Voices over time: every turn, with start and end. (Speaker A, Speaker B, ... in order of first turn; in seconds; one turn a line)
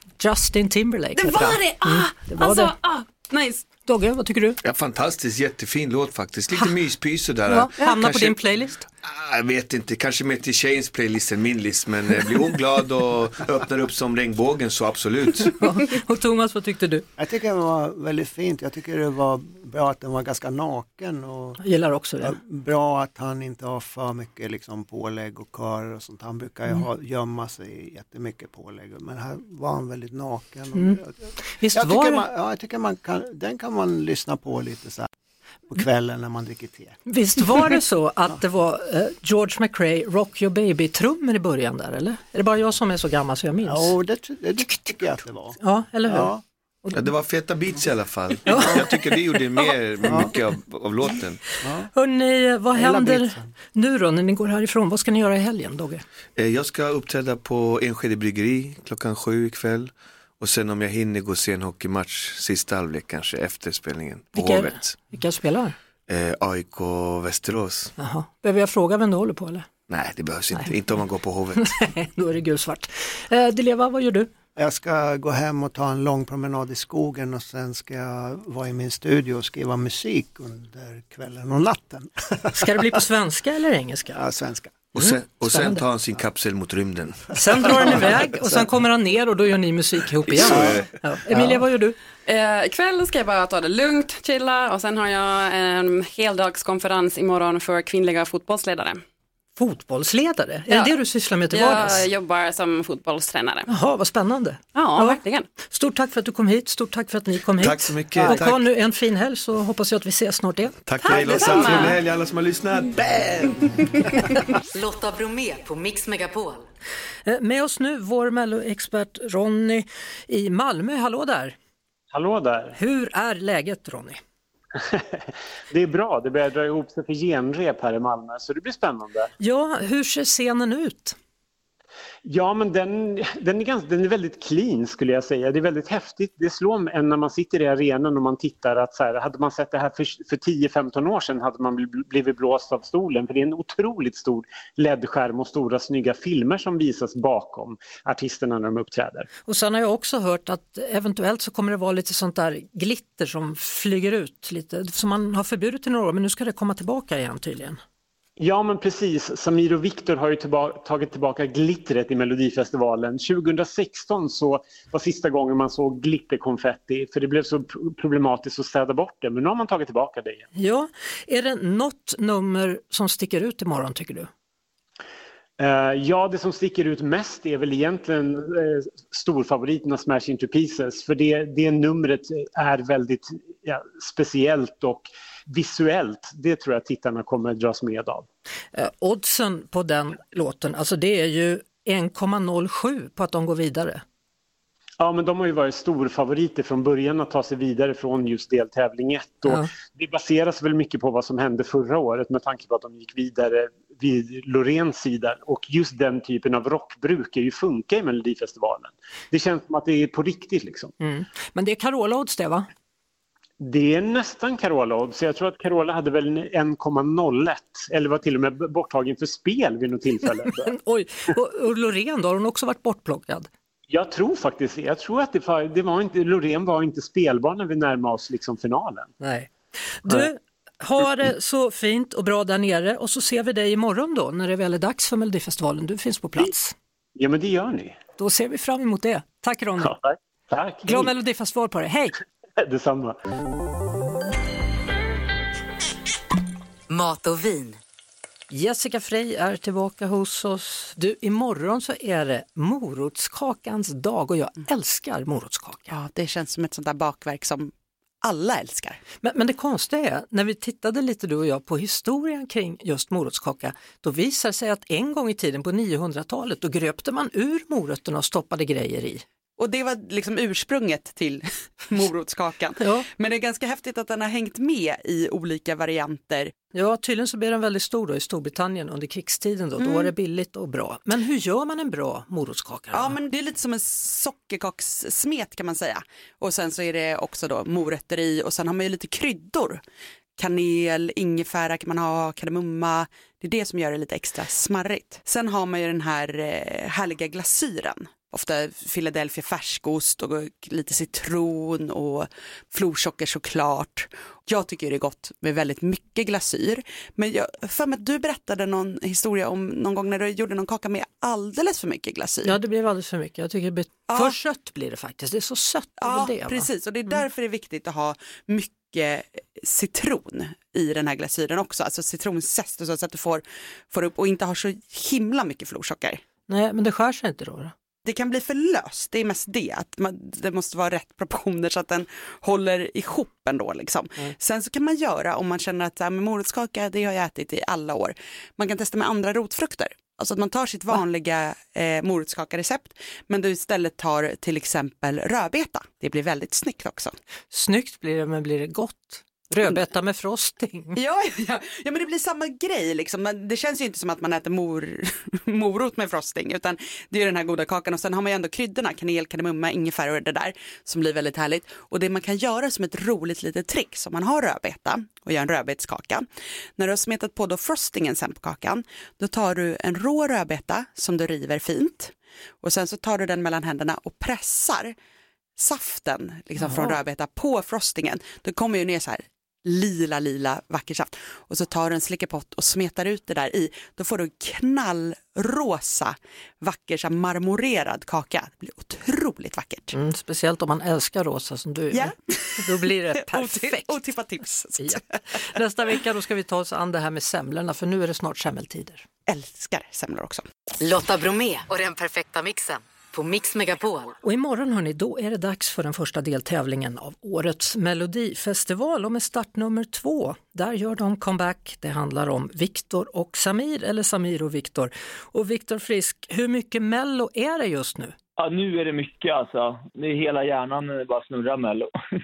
Speaker A: 0.2-2.7
Speaker B: 1.1-3.6
Speaker A: 3.9-4.6
Speaker C: 4.6-8.4
Speaker A: 7.5-8.8
Speaker C: 9.0-15.5
Speaker A: 15.6-17.0
Speaker D: 17.2-21.6
Speaker A: 21.6-22.4
Speaker D: 22.2-35.1
Speaker A: 30.7-32.2
Speaker D: 35.7-37.0
Speaker A: 37.0-43.9
Speaker D: 43.6-46.4
Speaker A: 45.6-46.3
Speaker C: 46.9-51.4
Speaker A: 48.5-50.3
Speaker D: 51.6-51.9
Speaker A: 51.9-56.0
Speaker D: 52.7-53.5
Speaker C: 56.4-65.0
Speaker A: 64.3-65.8
Speaker C: 66.1-67.9
Speaker A: 68.0-69.7
Speaker C: 69.9-71.7
Speaker A: 71.6-74.3
Speaker D: 74.5-82.9
Speaker A: 82.5-84.2
Speaker D: 84.1-84.8
Speaker C: 84.9-88.0
Speaker A: 85.0-85.8
Speaker A: 87.3-92.0
Speaker C: 90.3-90.9
Speaker D: 90.4-91.4
Speaker B: 92.2-99.0
Speaker A: 99.6-102.0
Speaker B: 101.5-103.7
Speaker A: 103.7-110.8
Speaker B: 104.7-105.5
Speaker C: 107.6-108.7
Speaker C: 110.8-113.6
Speaker B: 111.0-112.0
Speaker E: 114.7-116.6
Speaker A: 117.2-121.5
Speaker F: 122.1-122.8
Speaker A: 122.8-124.2
Speaker F: 125.7-129.3
Speaker A: 129.4-131.2
Speaker F: 132.2-149.3
Speaker A: 149.4-157.8
Speaker F: 158.4-170.5
Speaker A: 170.5-174.3
Speaker F: 175.6-188.2
Speaker A: 188.7-194.0
Speaker F: 195.0-210.9
Speaker A: 211.0-212.7
Speaker F: 213.6-220.7
Speaker A: 220.6-223.5
Speaker F: 223.9-229.1
Speaker A: 229.2-236.7
Speaker F: 237.2-238.0
Speaker A: 238.2-239.9
Speaker F: 239.8-241.1
Speaker A: 240.8-242.1
Speaker F: 242.6-243.2
Speaker E: 246.9-247.8
Speaker A: 248.5-255.9
Speaker G: 255.9-257.7
Speaker G: 258.2-259.0
Speaker A: 259.2-269.2
Speaker G: 269.6-276.5
Speaker A: 272.8-273.0
Speaker A: 276.7-283.1
Speaker G: 279.8-280.1
Speaker G: 282.9-289.8
Speaker G: 290.4-312.6
Speaker A: 312.4-316.7
Speaker G: 314.1-314.4
Speaker G: 316.0-326.2
Speaker A: 326.5-327.7
Speaker G: 328.0-347.1
Speaker A: 347.5-351.0
Speaker G: 350.9-366.2
Speaker G: 366.8-374.9
Speaker G: 375.6-390.0
Speaker A: 389.9-394.0
Speaker G: 391.9-395.4
Speaker A: 394.8-399.0
Speaker G: 399.3-400.4
Speaker E: 400.8-404.1
Speaker A: 404.2-418.1
Speaker H: 418.4-421.9